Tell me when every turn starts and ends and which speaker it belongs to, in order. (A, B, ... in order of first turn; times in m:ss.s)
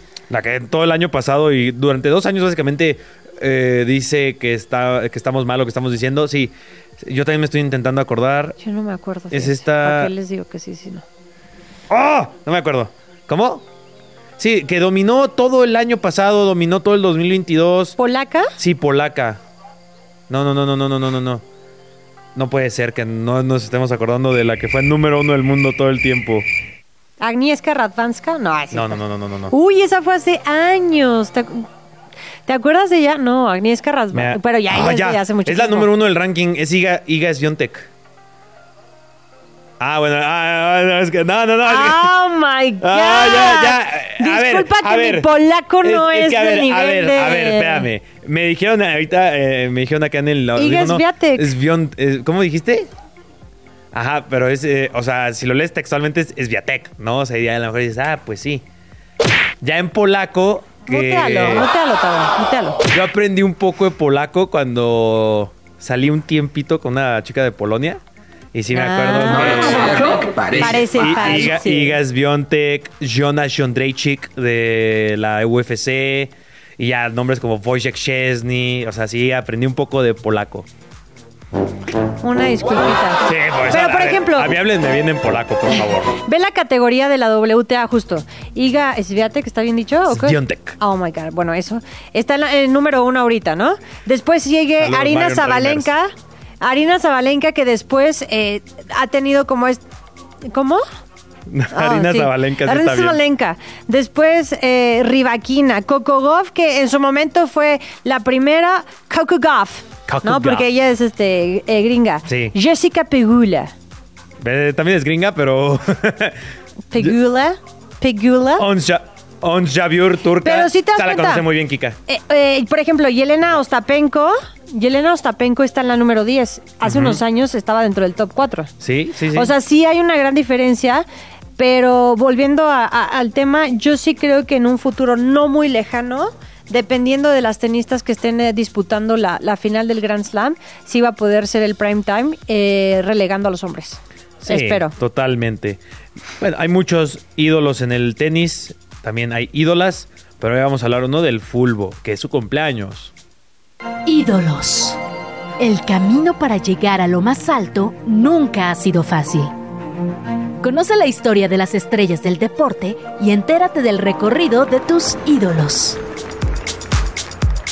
0:00.3-0:08.6 A
0:08.6-0:11.0 B
0:09.3-0:10.1 A
0:11.9-0:13.6 A
0:14.4-0:18.0 A
0:18.0-0:18.5 B
0:18.6-0:19.4 A
0:20.3-0:21.4 A
0:22.3-0:26.4 A
0:27.2-0:29.0 B
0:28.7-0:29.5 A
0:29.5-0:31.7 B
0:32.5-0:35.9 B
0:34.1-0:37.9 A
0:39.8-0:42.1 A
0:41.6-0:47.9 B
0:42.8-0:45.3 A
0:45.8-0:52.9 A
0:50.6-0:51.5 B
0:53.9-0:58.6 A
0:59.6-1:01.7 A
1:00.9-1:02.8 B
1:02.9-1:08.0 A
1:08.5-1:20.7 A
1:08.7-1:12.0 B
1:22.2-1:24.6 B
1:23.2-1:26.2 A
1:26.2-1:39.8 B
1:30.1-1:30.8 A
1:34.8-1:35.9 A
1:40.4-1:40.8 B
1:41.5-1:43.2 A
1:41.7-1:53.7 B
1:50.1-1:50.6 A
1:52.3-1:52.5 A
1:54.4-1:56.4 A
1:56.9-1:58.6 B
1:58.6-2:02.0 A
2:00.4-2:01.4 B
2:02.1-2:08.7 B
2:06.8-2:07.2 A
2:08.8-2:09.5 A
2:09.3-2:11.0 B
2:11.6-2:24.9 B
2:24.4-2:25.8 A
2:26.4-2:33.1 A
2:34.0-2:35.0 C
2:35.6-2:39.5 C
2:40.6-2:46.0 C